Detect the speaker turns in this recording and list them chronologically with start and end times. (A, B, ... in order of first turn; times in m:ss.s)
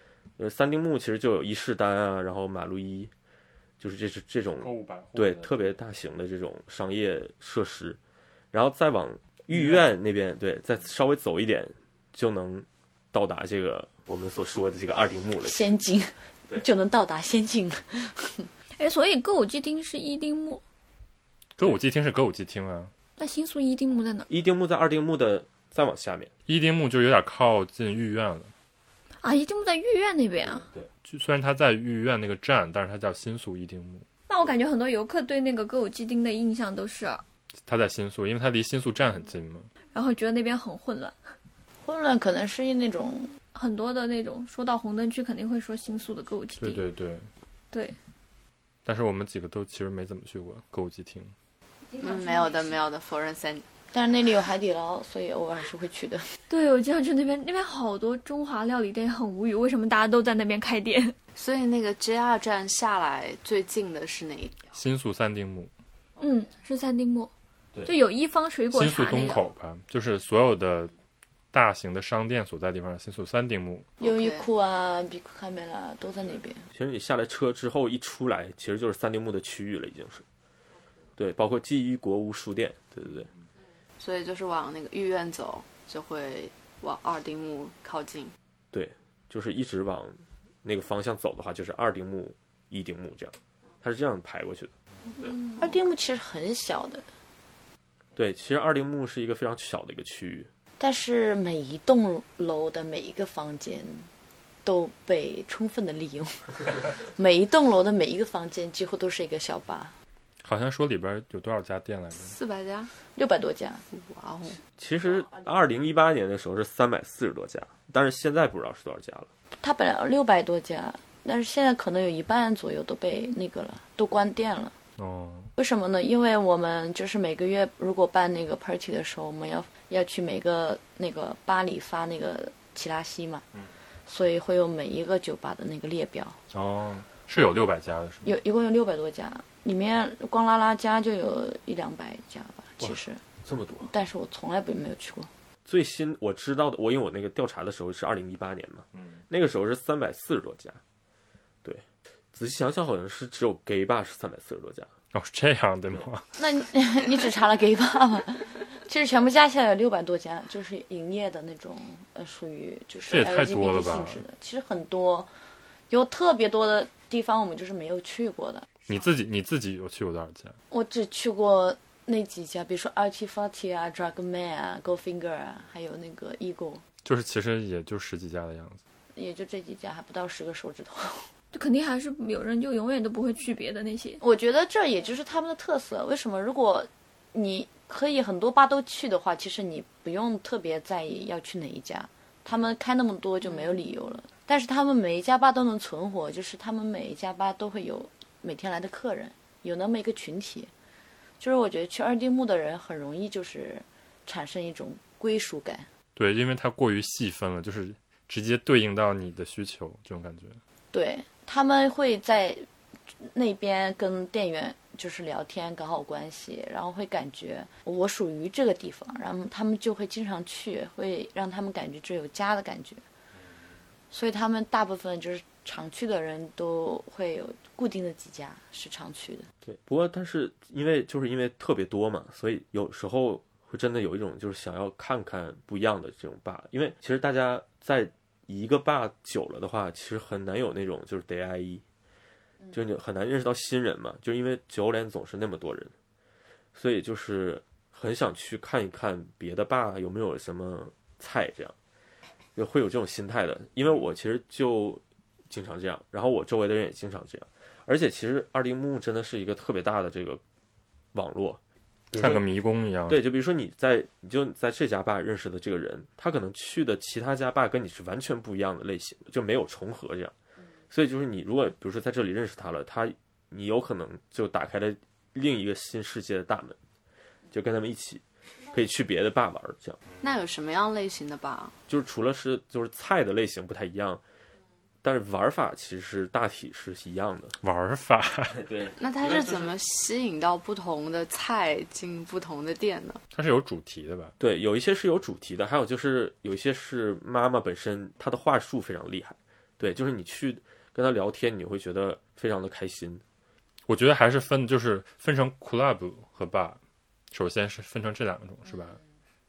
0:00.4-0:03.1 A
0:03.8-0:08.0 A
0:04.6-0:05.8 B
0:08.5-0:15.6 A
0:09.5-0:09.8 B
0:15.4-0:18.5 C
0:18.8-0:20.6 D
0:21.6-0:22.9 B
0:23.2-0:24.3 D
0:24.3-0:26.3 A
0:26.5-0:28.5 B
0:29.2-0:30.7 D
0:31.0-0:34.1 B
0:34.3-0:37.2 D
0:37.7-0:39.7 B
0:39.9-0:41.2 D
0:41.8-0:43.3 C
0:43.5-0:46.8 D
0:46.6-0:47.3 B
0:47.7-0:48.0 D
0:48.8-0:51.3 B
0:51.9-0:52.8 D
0:52.0-0:53.7 E
0:53.9-0:56.3 C
0:56.5-1:01.2 D
1:01.4-1:04.8 E
1:04.8-1:05.7 B
1:06.2-1:07.3 D
1:07.8-1:09.5 D
1:08.7-1:10.9 B
1:11.5-1:13.9 B
1:14.0-1:14.5 E
1:14.0-1:16.6 C
1:16.7-1:20.2 A
1:21.2-1:23.3 A
1:24.0-1:28.3 E
1:28.7-1:35.3 A
1:35.6-1:37.1 C
1:38.2-1:40.5 A
1:40.8-1:44.1 C
1:44.6-1:50.0 C
1:50.4-1:52.3 B
1:52.2-1:52.9 E
1:53.2-1:53.8 C
1:53.9-1:54.6 E
1:54.8-1:59.3 A
1:59.6-2:04.8 C
2:05.0-2:05.5 B
2:05.6-2:13.4 C
2:14.1-2:16.4 C
2:16.5-2:18.3 B
2:18.2-2:23.2 C
2:22.8-2:23.9 A
2:23.8-2:25.3 C
2:25.7-2:30.8 A
2:28.9-2:29.2 B
2:31.6-2:34.9 A
2:35.1-2:36.3 B
2:36.4-2:45.3 C
2:43.1-2:44.2 B
2:45.9-2:48.8 C
2:48.9-2:50.6 B
2:50.7-2:56.8 C
2:57.0-2:58.8 B
2:59.2-3:01.3 C
3:01.5-3:04.2 D
3:04.2-3:20.7 C
3:21.4-3:25.9 C
3:26.2-3:30.6 B
3:30.9-3:32.6 C
3:33.3-3:43.0 C
3:44.1-3:49.5 C
3:49.6-4:01.8 A
4:02.7-4:05.9 A
4:06.8-4:11.8 A
4:12.6-4:20.4 A
4:21.1-4:21.6 A
4:22.1-4:22.4 A
4:22.1-4:23.2 B
4:23.1-4:30.3 A
4:30.9-4:36.8 A
4:37.5-4:40.0 A
4:40.2-4:41.8 E
4:41.9-4:44.2 A
4:45.0-4:47.6 A
4:47.6-4:48.6 B
4:48.5-4:49.7 A
4:49.0-4:53.2 E
4:53.3-4:54.3 B
4:54.4-5:03.2 A
5:03.9-5:06.8 B
5:07.3-5:09.0 B